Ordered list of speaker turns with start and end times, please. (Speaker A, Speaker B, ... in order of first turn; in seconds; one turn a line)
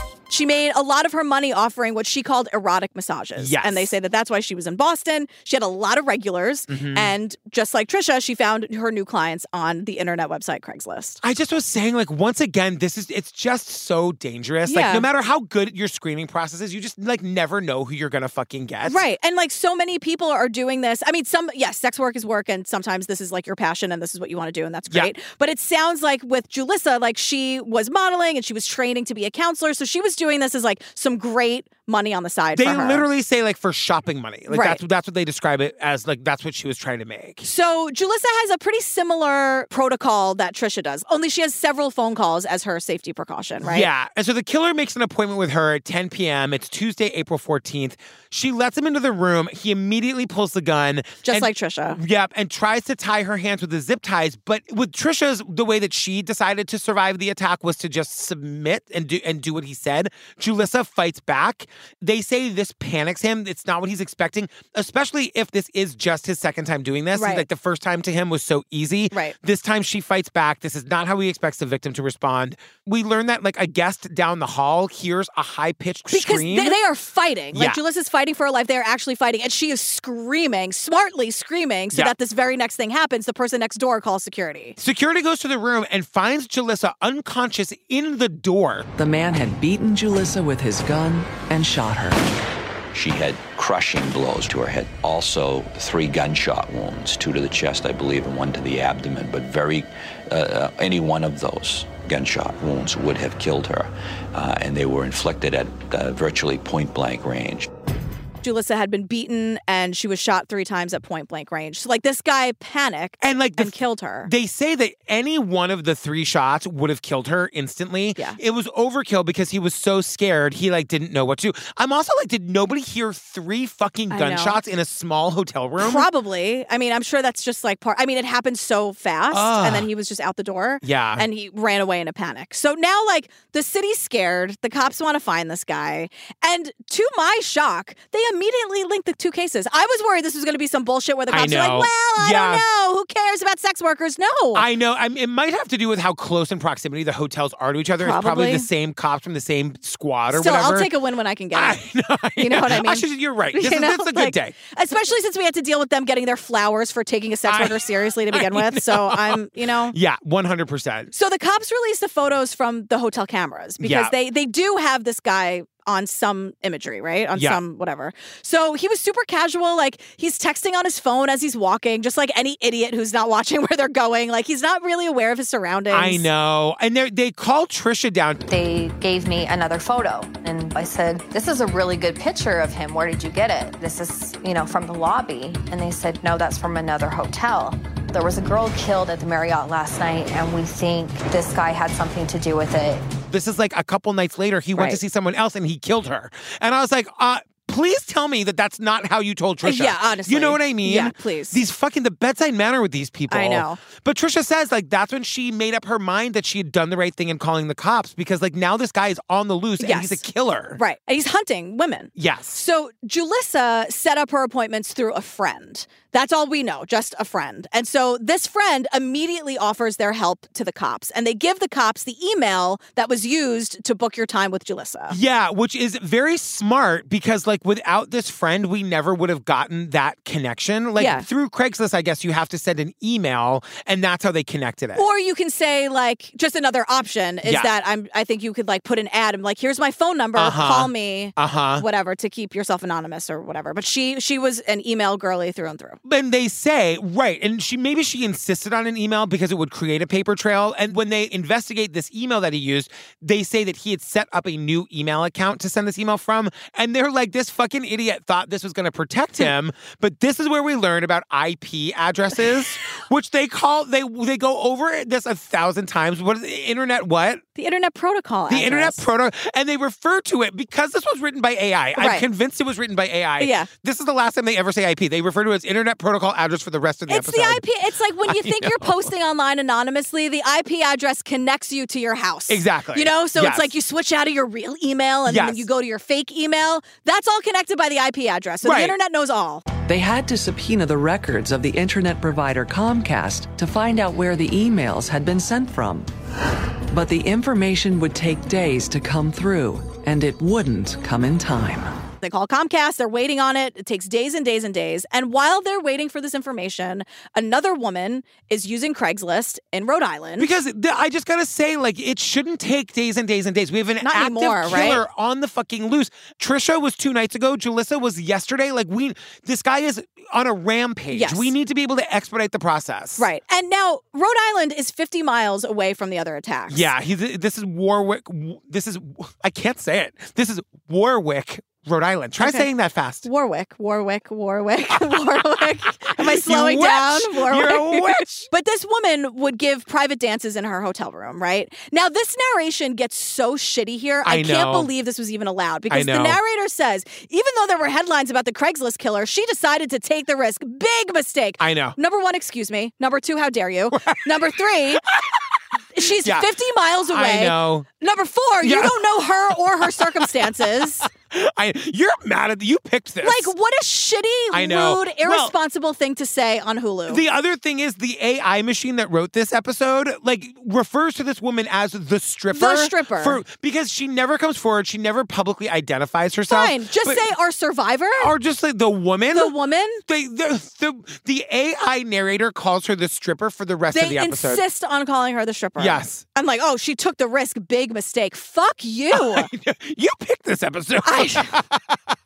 Speaker A: 0.3-11.2
Speaker B: 3.4-3.9
Speaker B: 6.7-7.1
Speaker B: 11.2-19.0
Speaker A: 14.7-15.1
Speaker A: 18.9-33.1
Speaker B: 32.6-37.5
Speaker A: 34.5-34.8
Speaker A: 37.4-43.9
Speaker B: 43.6-76.8
Speaker A: 51.2-52.0
Speaker A: 67.1-67.5
Speaker A: 76.1-84.8
Speaker B: 77.5-77.8
Speaker B: 84.8-88.9
Speaker C: 89.0-92.2
Speaker D: 92.9-107.7
Speaker A: 108.4-114.3
Speaker B: 113.2-126.1
Speaker A: 124.1-124.6
Speaker A: 125.8-144.7
Speaker B: 129.3-129.9
Speaker B: 130.8-131.3
Speaker B: 141.3-142.6
Speaker B: 144.6-150.9
Speaker A: 148.0-148.7
Speaker A: 150.3-151.8
Speaker B: 151.5-154.6
Speaker A: 152.4-159.9
Speaker B: 157.5-161.1
Speaker A: 161.1-176.3
Speaker B: 163.8-164.1
Speaker B: 167.3-167.6
Speaker B: 175.9-178.4
Speaker E: 178.5-193.1
Speaker B: 193.3-210.8
Speaker A: 194.8-195.0
Speaker A: 199.6-201.6
Speaker A: 203.3-203.8
Speaker A: 209.8-210.2
Speaker A: 210.8-225.2
Speaker B: 212.2-212.6
Speaker B: 225.1-235.1
Speaker A: 231.0-231.3
Speaker A: 235.0-246.0
Speaker B: 237.4-237.7
Speaker B: 240.4-241.8
Speaker B: 246.1-267.4
Speaker A: 267.6-269.0
Speaker B: 268.5-277.6
Speaker A: 272.0-272.3
Speaker A: 273.4-273.7
Speaker A: 277.1-289.6
Speaker B: 278.3-279.1
Speaker B: 282.5-283.7
Speaker B: 285.3-285.7
Speaker B: 288.6-288.9
Speaker C: 289.9-296.1
Speaker C: 296.9-301.9
Speaker A: 302.2-310.5
Speaker B: 310.4-323.3
Speaker A: 314.0-315.0
Speaker A: 321.1-321.5
Speaker A: 323.2-326.9
Speaker B: 326.7-333.3
Speaker A: 332.4-332.7
Speaker A: 333.2-355.0
Speaker B: 336.1-338.5
Speaker B: 344.2-344.9
Speaker B: 345.9-346.4
Speaker B: 351.6-351.9
Speaker B: 353.9-354.6
Speaker A: 355.9-361.1
Speaker B: 356.2-356.5
Speaker B: 357.1-357.9
Speaker B: 358.6-363.5
Speaker A: 363.2-367.2
Speaker B: 364.5-365.5
Speaker B: 367.1-377.3
Speaker A: 372.5-373.4
Speaker A: 376.5-378.3
Speaker B: 378.2-379.5
Speaker A: 379.3-380.0
Speaker B: 380.1-384.6
Speaker A: 383.9-389.5
Speaker B: 385.8-386.2
Speaker B: 389.1-391.8
Speaker A: 391.0-391.6